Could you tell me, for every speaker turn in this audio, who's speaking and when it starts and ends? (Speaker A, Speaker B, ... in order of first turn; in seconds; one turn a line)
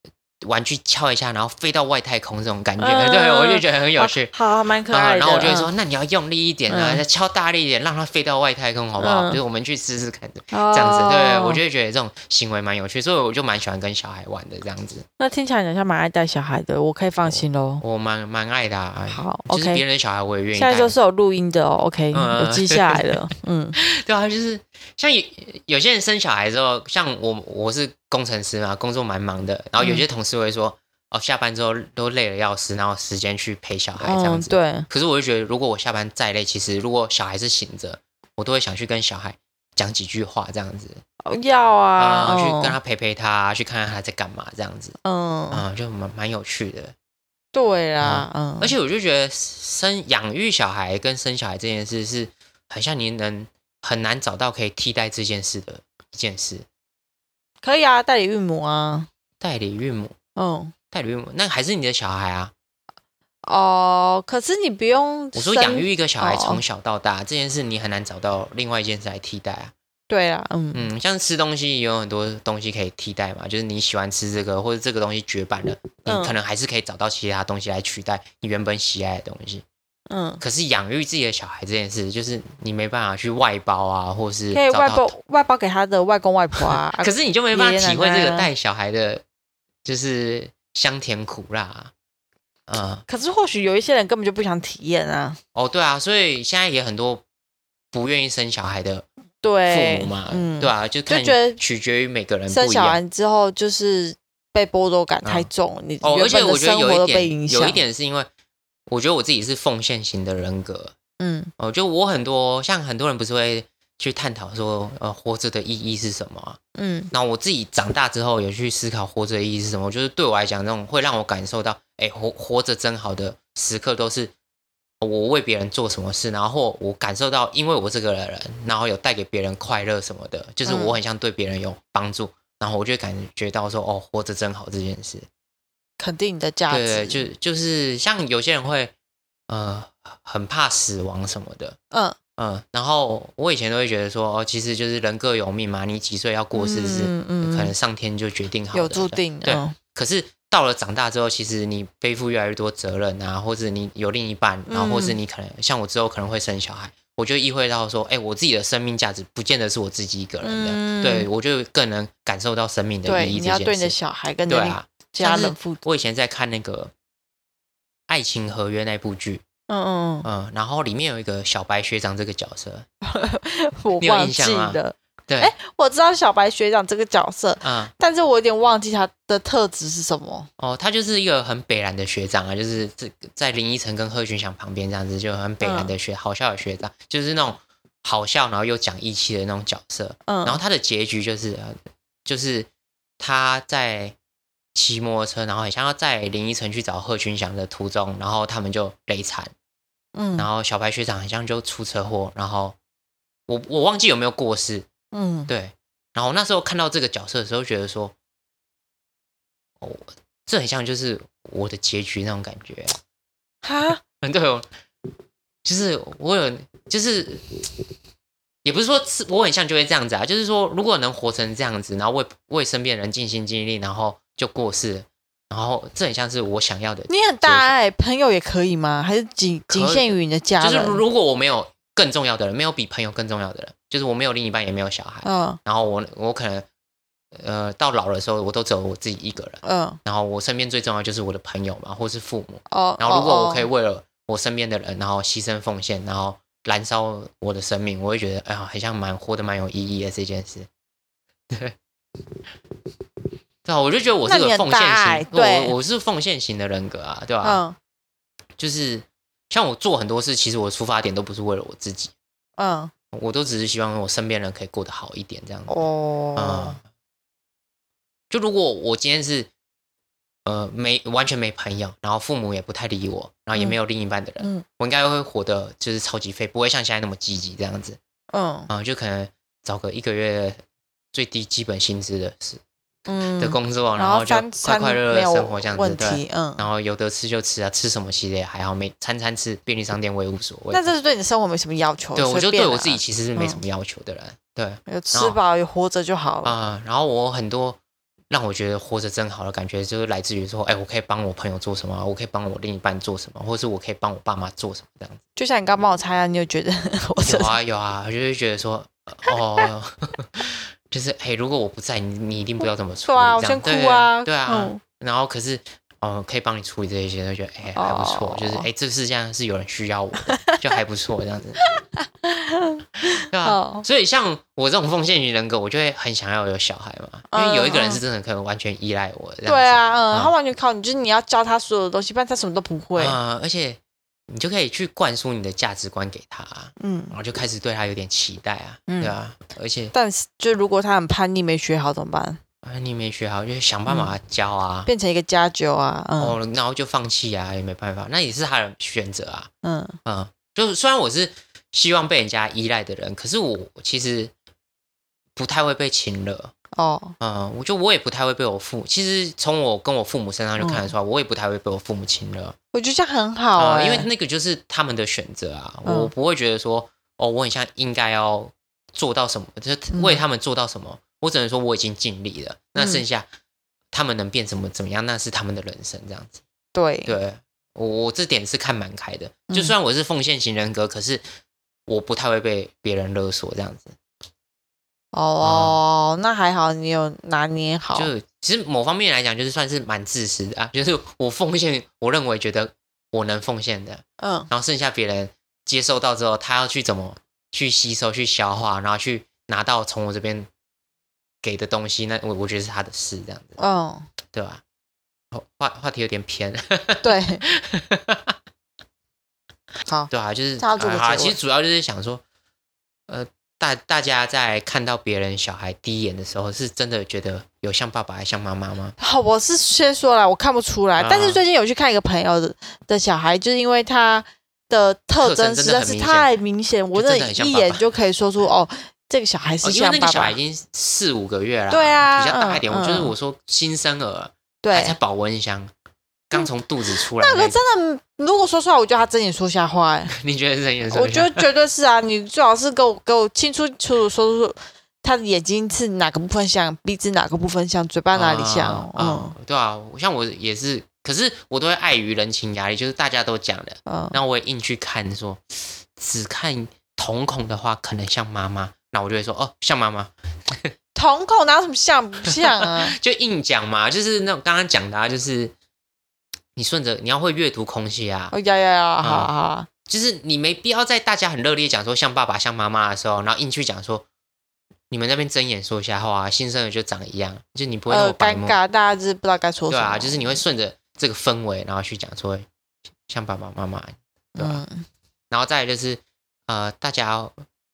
Speaker A: 0.4-4.3
Speaker B: 2.8-5.7
Speaker A: 4.9-15.0
Speaker B: 6.7-7.0
Speaker B: 9.0-9.4
Speaker B: 10.5-11.6
Speaker B: 15.2-17.8
Speaker A: 17.2-20.9
Speaker B: 19.1-19.8
Speaker B: 20.5-23.8
Speaker A: 22.1-23.2
Speaker A: 23.8-41.0
Speaker B: 29.8-30.0
Speaker B: 34.0-34.9
Speaker B: 41.2-42.8
Speaker A: 42.0-45.0
Speaker B: 45.0-45.6
Speaker A: 45.5-46.9
Speaker B: 47.5-48.7
Speaker A: 48.0-56.6
Speaker B: 57.6-59.1
Speaker A: 59.4-60.1
Speaker B: 60.4-60.7
Speaker A: 60.9-62.5
Speaker B: 63.4-66.6
Speaker A: 65.3-69.7
Speaker B: 70.1-70.9
Speaker A: 70.7-79.6
Speaker B: 76.0-76.3
Speaker B: 80.1-80.4
Speaker A: 80.4-85.1
Speaker B: 84.5-88.5
Speaker A: 86.8-89.2
Speaker A: 89.8-91.9
Speaker A: 92.7-93.0
Speaker B: 93.1-95.4
Speaker A: 95.5-97.2
Speaker A: 97.9-99.0
Speaker B: 99.4-101.6
Speaker A: 99.7-103.0
Speaker B: 102.5-107.8
Speaker A: 105.2-105.5
Speaker A: 106.0-108.3
Speaker A: 108.9-110.9
Speaker B: 111.2-111.5
Speaker A: 111.6-116.6
Speaker B: 116.8-117.1
Speaker A: 117.1-124.3
Speaker A: 125.0-135.3
Speaker B: 130.6-131.0
Speaker B: 136.0-137.2
Speaker A: 136.7-138.9
Speaker A: 139.5-141.8
Speaker A: 142.4-163.9
Speaker B: 146.5-147.7
Speaker B: 148.7-149.8
Speaker B: 154.7-155.2
Speaker B: 160.4-161.3
Speaker B: 163.0-165.8
Speaker A: 164.5-166.9
Speaker A: 168.1-169.4
Speaker B: 169.7-170.3
Speaker A: 170.2-172.9
Speaker B: 173.0-180.5
Speaker A: 174.0-175.5
Speaker A: 177.6-177.9
Speaker A: 180.6-192.7
Speaker B: 185.6-185.9
Speaker B: 190.3-190.6
Speaker A: 193.2-194.2
Speaker A: 194.7-199.5
Speaker B: 200.1-200.5
Speaker A: 200.4-202.8
Speaker A: 203.5-204.9
Speaker B: 205.1-205.5
Speaker A: 205.5-208.1
Speaker A: 209.8-213.0
Speaker B: 213.6-214.0
Speaker A: 214.2-214.7
Speaker A: 215.6-217.7
Speaker A: 218.6-227.7
Speaker B: 227.1-231.0
Speaker A: 229.7-230.1
Speaker A: 230.6-236.7
Speaker B: 235.2-235.6
Speaker A: 237.3-250.7
Speaker B: 239.6-240.0
Speaker B: 242.7-243.7
Speaker A: 251.5-251.8
Speaker A: 253.6-257.6
Speaker B: 254.2-255.7
Speaker B: 257.4-257.8
Speaker A: 258.6-262.1
Speaker B: 262.6-262.9
Speaker A: 263.1-265.8
Speaker B: 265.7-266.8
Speaker A: 266.4-266.8
Speaker A: 268.3-269.5
Speaker A: 270.4-278.0
Speaker B: 274.4-274.6
Speaker B: 278.3-278.7
Speaker A: 278.7-280.6
Speaker A: 281.1-282.6
Speaker B: 283.1-286.7
Speaker A: 283.4-290.9
Speaker B: 290.7-293.6
Speaker A: 292.1-295.4
Speaker B: 294.9-296.5
Speaker A: 296.4-297.8
Speaker A: 298.3-305.2
Speaker B: 305.4-307.5
Speaker A: 307.2-321.6
Speaker B: 309.3-309.6
Speaker B: 313.1-314.8
Speaker B: 317.7-318.7
Speaker B: 320.3-320.6
Speaker B: 321.6-323.9
Speaker A: 323.2-330.3
Speaker B: 327.3-328.0
Speaker B: 329.4-333.2
Speaker A: 332.9-339.9
Speaker B: 336.8-337.1
Speaker B: 338.9-339.1
Speaker B: 339.9-342.4
Speaker A: 342.6-344.9
Speaker B: 344.9-346.4
Speaker A: 346.2-349.5
Speaker B: 349.6-350.0
Speaker A: 350.0-354.3
Speaker A: 355.4-356.5
Speaker B: 356.7-357.1
Speaker A: 357.2-362.6
Speaker B: 360.6-360.9
Speaker B: 362.7-364.1
Speaker A: 363.6-373.3
Speaker B: 365.8-366.1
Speaker B: 369.9-370.2
Speaker B: 372.8-373.0
Speaker A: 373.9-376.4
Speaker B: 376.7-377.1
Speaker A: 377.1-381.2
Speaker B: 379.5-379.7
Speaker A: 381.9-383.9
Speaker B: 385.1-388.1
Speaker A: 385.4-385.8
Speaker A: 387.9-400.5
Speaker B: 394.2-394.5
Speaker A: 401.4-403.6
Speaker B: 403.6-404.1
Speaker A: 404.3-404.6
Speaker A: 405.3-408.4
Speaker B: 407.0-407.4
Speaker B: 409.8-411.4
Speaker A: 410.1-412.2
Speaker A: 413.1-418.9
Speaker B: 419.0-430.4
Speaker A: 421.0-421.4
Speaker A: 425.2-426.3
Speaker A: 426.9-427.9
Speaker A: 429.6-435.7
Speaker B: 431.7-433.1
Speaker B: 434.6-435.0
Speaker A: 436.3-437.6
Speaker B: 436.3-440.1
Speaker A: 440.1-441.4
Speaker B: 440.9-449.3
Speaker A: 448.1-460.7
Speaker B: 453.9-454.2
Speaker B: 460.9-463.0
Speaker A: 462.3-465.5
Speaker A: 466.6-468.3
Speaker B: 468.3-469.7
Speaker A: 469.0-469.3
Speaker A: 469.9-474.1
Speaker A: 474.9-478.6
Speaker B: 477.9-480.4
Speaker A: 479.7-482.5
Speaker A: 483.1-484.6
Speaker B: 484.4-484.9
Speaker A: 485.3-487.4